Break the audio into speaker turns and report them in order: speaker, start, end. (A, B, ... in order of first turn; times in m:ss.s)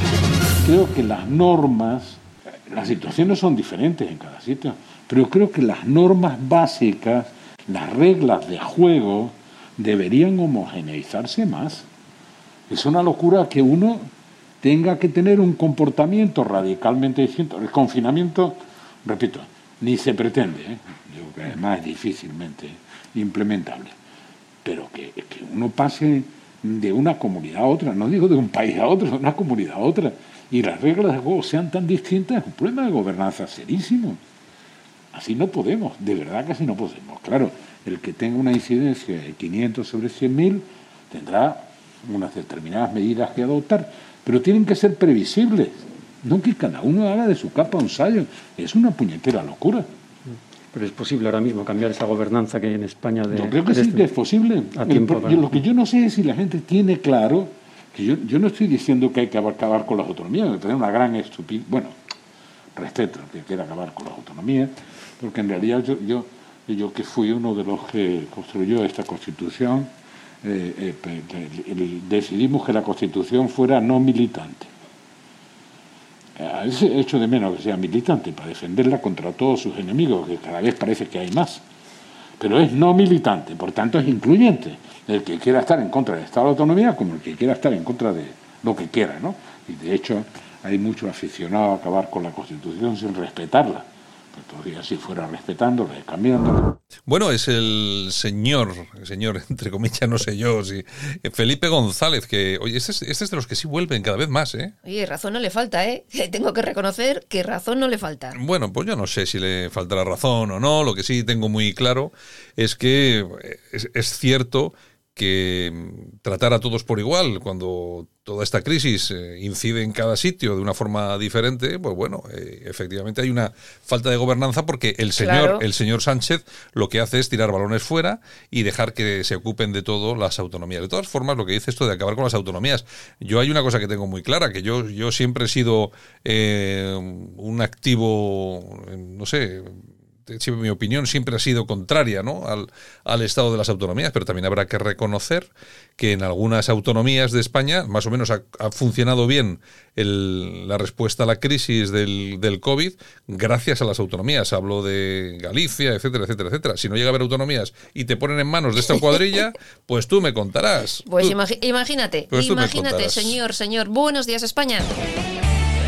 0:00.6-0:11.9 A
0:12.7-0:14.1 A
0:14.6-0:23.9 A
0:24.6-0:34.2 A
0:35.1-0:49.9 A
0:50.7-0:54.1 B
0:53.3-1:01.9 A
0:54.7-0:55.6 B
1:02.8-1:09.9 A
1:10.4-1:14.7 A
1:16.4-1:21.6 A
1:22.4-1:36.8 A
1:37.1-1:44.7 C
1:44.8-1:48.4 D
1:48.3-2:41.4 C
2:05.2-2:05.6 D
2:41.1-2:45.0 D
2:42.3-2:43.4 C